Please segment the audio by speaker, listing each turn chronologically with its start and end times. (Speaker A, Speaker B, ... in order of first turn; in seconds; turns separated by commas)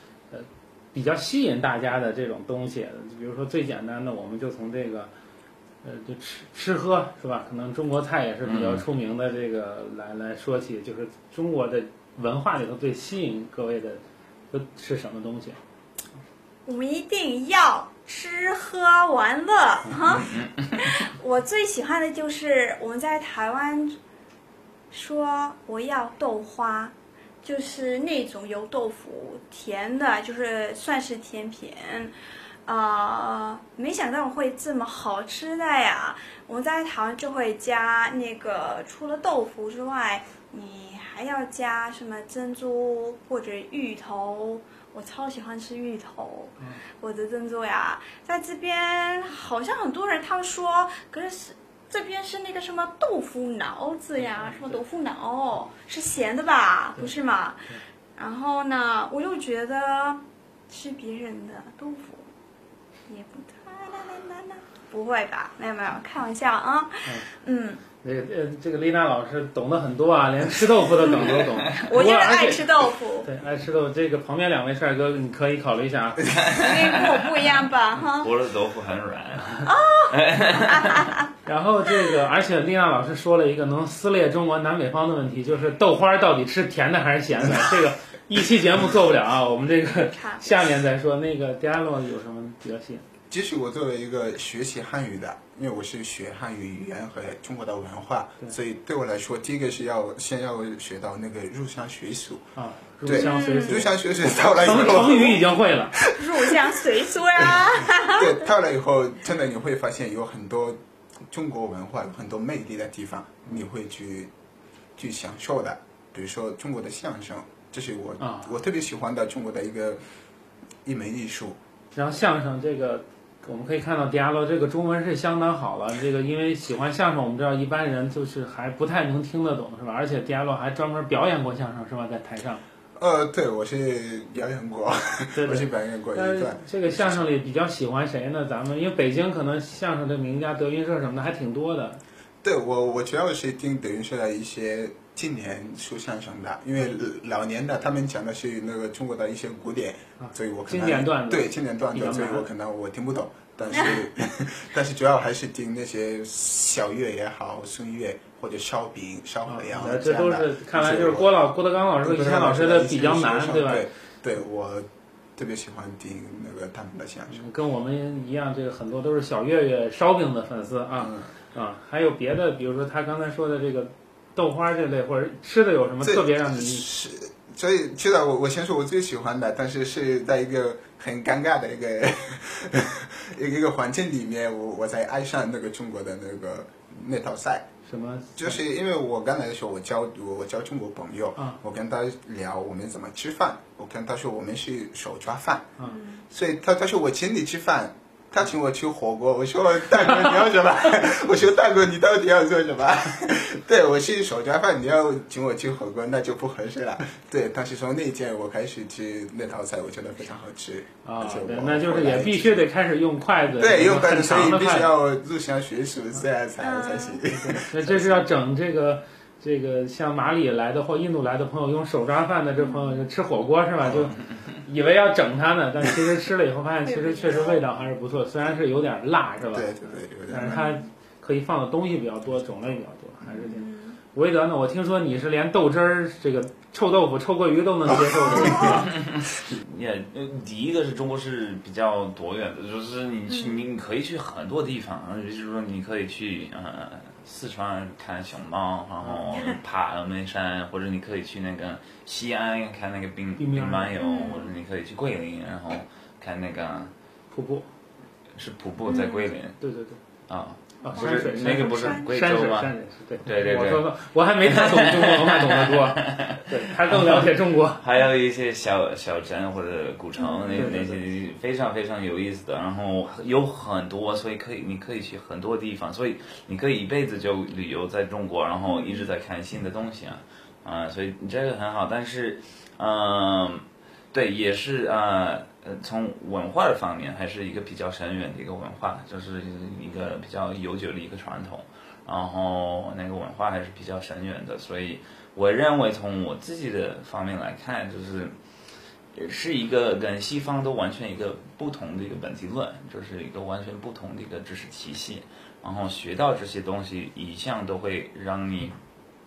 Speaker A: 0.3-5.1, Speaker A: 5.8-15.6, Speaker B: 8.4-8.8, Speaker C: 16.6-24.0, Speaker B: 20.1-20.7, Speaker C: 24.9-32.1, Speaker C: 32.6-57.6, Speaker A: 54.2-54.8, Speaker C: 58.2-62.2, Speaker C: 63.1-67.8, Speaker A: 68.0-72.7, Speaker C: 71.0-73.3, Speaker A: 73.2-76.3, Speaker B: 76.3-77.0, Speaker C: 76.5-78.3, Speaker B: 78.2-81.1, Speaker C: 79.6-81.3, Speaker A: 81.5-93.0, Speaker C: 89.9-90.5, Speaker D: 93.3-102.5, Speaker A: 102.5-103.9, Speaker D: 103.0-105.4, Speaker C: 103.1-103.8, Speaker A: 104.6-106.0, Speaker C: 106.1-108.4, Speaker D: 107.5-110.8, Speaker D: 111.3-114.3, Speaker D: 115.0-120.0, Speaker A: 118.2-118.5, Speaker D: 120.8-121.6, Speaker A: 121.9-132.6, Speaker D: 132.9-137.3, Speaker A: 135.3-142.0, Speaker D: 142.4-161.3, Speaker A: 150.2-152.4, Speaker A: 159.5-163.8, Speaker D: 162.0-167.4, Speaker A: 167.3-176.8, Speaker D: 171.0-171.3, Speaker D: 176.0-187.7, Speaker A: 187.9-188.6, Speaker D: 188.4-195.7, Speaker C: 195.8-196.2, Speaker D: 196.3-212.7, Speaker A: 211.0-214.9, Speaker D: 213.6-218.3, Speaker C: 216.6-217.2, Speaker A: 217.5-229.7, Speaker C: 222.6-223.1, Speaker D: 223.8-224.1, Speaker C: 226.8-227.6, Speaker D: 229.5-230.8, Speaker A: 230.3-238.9, Speaker C: 233.3-234.0, Speaker C: 238.4-238.8, Speaker B: 238.9-256.9, Speaker C: 243.3-243.6, Speaker C: 249.3-249.6, Speaker A: 253.4-253.9, Speaker C: 253.9-254.6, Speaker A: 257.3-257.7, Speaker B: 258.4-259.6, Speaker C: 258.9-259.4, Speaker A: 259.6-260.0, Speaker B: 260.3-262.7, Speaker A: 260.8-267.8, Speaker C: 260.9-262.1, Speaker B: 263.2-263.8, Speaker B: 264.4-298.3, Speaker C: 270.1-270.8, Speaker A: 270.6-271.0, Speaker C: 278.6-279.1, Speaker B: 299.1-308.7